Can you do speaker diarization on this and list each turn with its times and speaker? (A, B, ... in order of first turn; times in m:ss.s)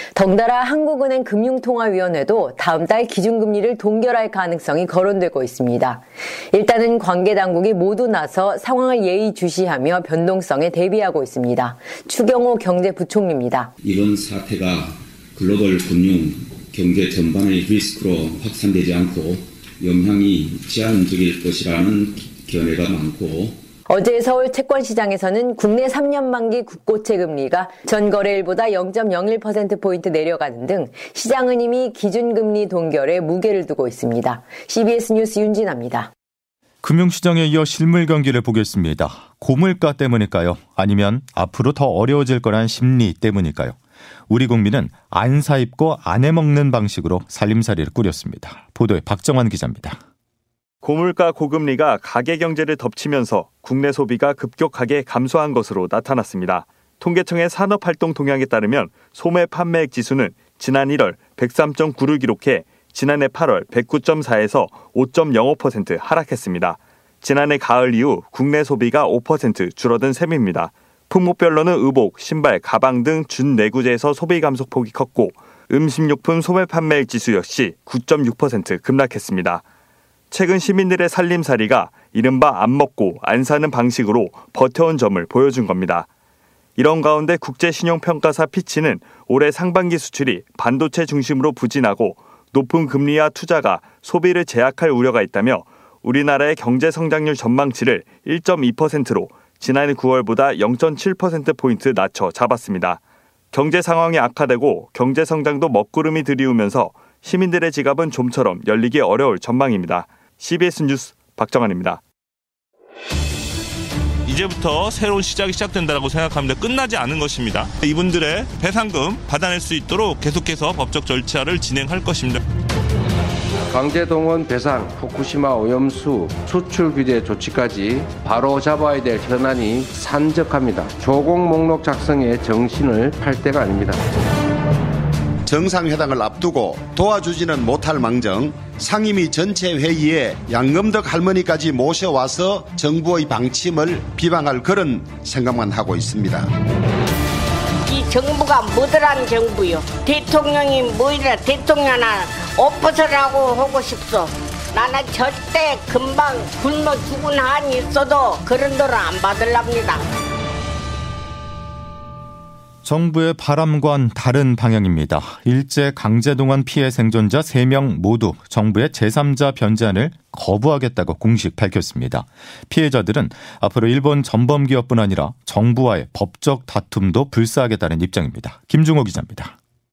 0:00.2-0:06.0 A
0:06.5-0:13.7 A
0:13.8-0:23.6 B
0:23.9-0:36.1 A
0:36.8-0:43.8 C
0:44.3-0:50.0 C
0:50.8-1:19.6 D
1:20.3-1:26.1 D
1:26.8-1:43.0 D
1:43.5-1:52.0 D
1:54.3-2:02.4 E
2:03.7-2:14.0 F
2:15.5-2:26.5 G
2:27.9-2:40.0 H
2:42.8-2:59.6 C